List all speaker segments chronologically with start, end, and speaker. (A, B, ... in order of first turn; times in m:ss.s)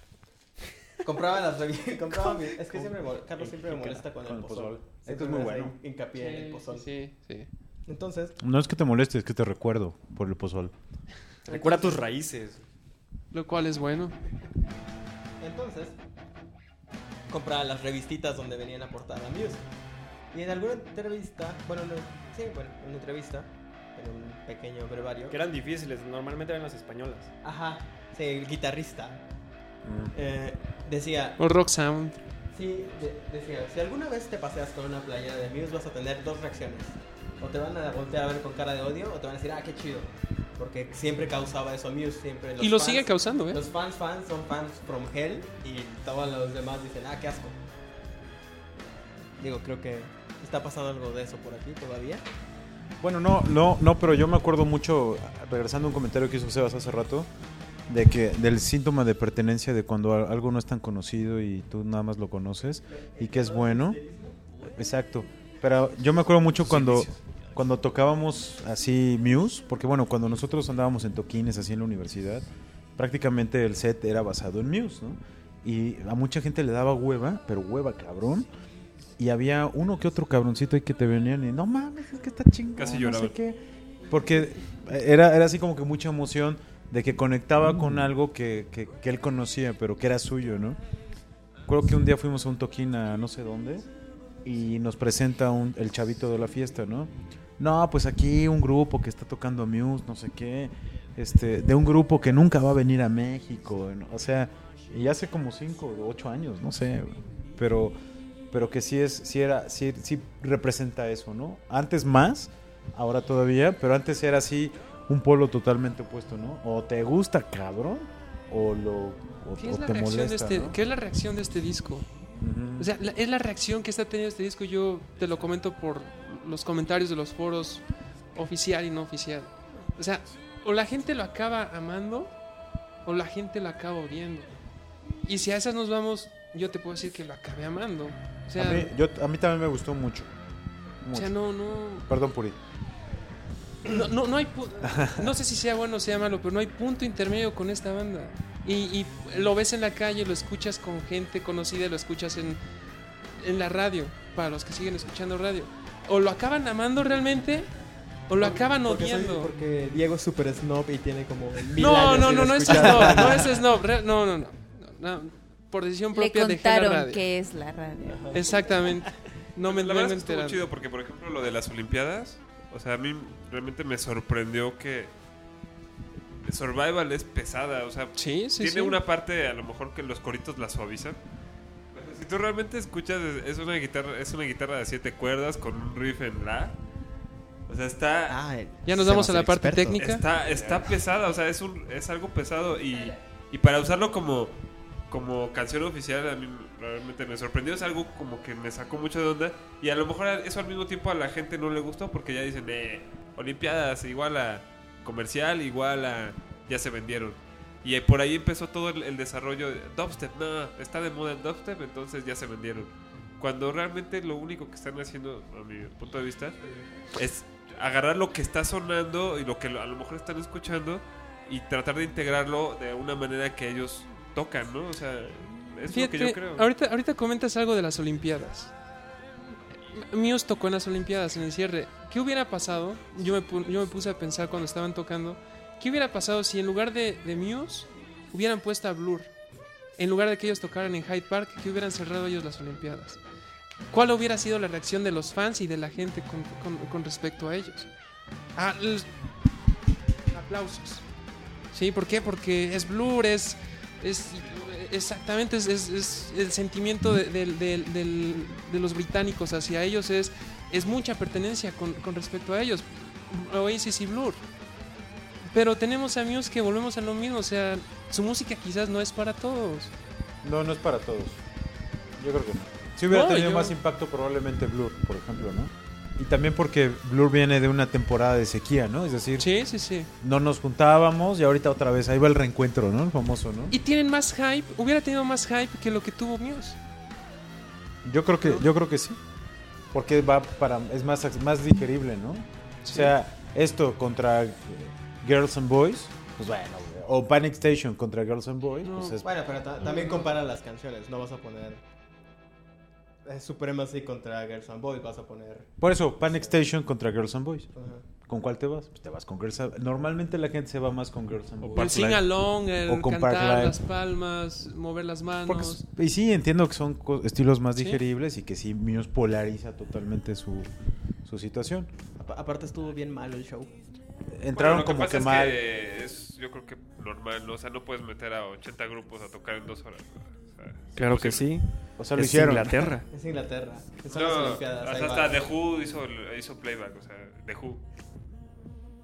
0:01.0-0:06.9 A
0:03.4-0:04.1 B
0:04.2-0:05.8 C
0:06.2-0:07.5 D
0:07.9-0:08.4 A
0:08.4-0:10.7 C
0:11.4-0:12.6 B
0:11.5-0:12.1 A
0:13.3-0:14.2 D
0:15.4-0:16.0 A
0:17.3-0:19.6 A
0:20.3-0:25.4 A
0:25.3-0:27.3 B
0:27.4-0:29.2 A
0:29.8-0:30.1 C
0:30.1-0:31.4 A
0:31.4-0:32.2 D
0:32.5-0:47.6 A
0:42.6-0:43.6 D
0:49.4-0:52.2 A
0:53.0-0:57.3 C
0:57.9-1:04.0 C
1:02.9-1:04.4 A
1:04.6-1:12.5 C
1:06.6-1:07.2 E
1:13.0-1:18.5 C
1:19.2-1:23.6 C
1:22.8-1:23.4 E
1:24.1-1:30.8 C
1:31.7-1:33.9 C
1:34.4-1:48.0 C
1:48.5-2:00.8 C
1:59.6-2:02.1 D
2:02.4-2:02.9 C
2:02.8-2:12.3 D
2:13.0-2:14.5 D
2:15.2-2:18.9 D
2:18.6-2:20.3 C
2:21.0-2:21.4 C
2:21.1-2:22.1 D
2:22.0-2:22.6 C
2:23.8-2:32.6 D
2:24.8-2:25.4 C
2:33.4-2:37.7 D
2:38.3-2:39.5 D
2:38.4-2:43.6 A
2:41.8-2:47.2 D
2:46.2-2:48.3 F
2:48.1-2:49.0 A
2:48.3-2:50.7 D
2:49.6-2:55.1 E
2:56.4-3:01.2 E
2:58.2-2:59.0 D
3:01.9-3:06.8 E
3:07.7-3:08.4 E
3:08.3-3:10.0 A
3:08.9-3:10.3 D
3:10.0-3:14.6 E
3:15.1-3:36.6 E
3:37.1-3:46.7 E
3:45.9-3:48.7 D
3:49.9-3:59.3 D
4:00.0-4:03.2 D
4:03.9-4:07.9 D
4:08.6-4:09.1 D
4:10.3-4:11.0 D
4:11.7-4:24.4 D
4:25.5-4:29.9 D
4:30.4-4:31.4 C
4:32.2-4:39.5 C
4:33.1-4:33.7 D
4:39.4-4:40.1 D
4:40.2-4:43.8 C
4:43.7-4:46.8 D
4:48.0-4:49.2 C
4:49.9-4:59.3 C
4:52.8-4:53.1 D
4:58.8-4:59.2 D
4:59.2-5:01.8 A
4:59.8-5:00.3 D
5:03.2-5:05.7 A
5:05.8-5:07.7 C
5:07.8-5:08.0 A
5:08.2-5:13.8 C
5:11.6-5:12.0 E
5:11.8-5:15.8 D
5:15.5-5:20.7 C
5:21.2-5:21.9 C
5:22.2-5:23.7 A
5:24.3-5:25.6 C
5:24.6-5:31.5 E
5:31.0-5:33.1 B
5:32.0-5:32.9 C
5:33.1-5:35.4 A
5:34.1-5:37.8 E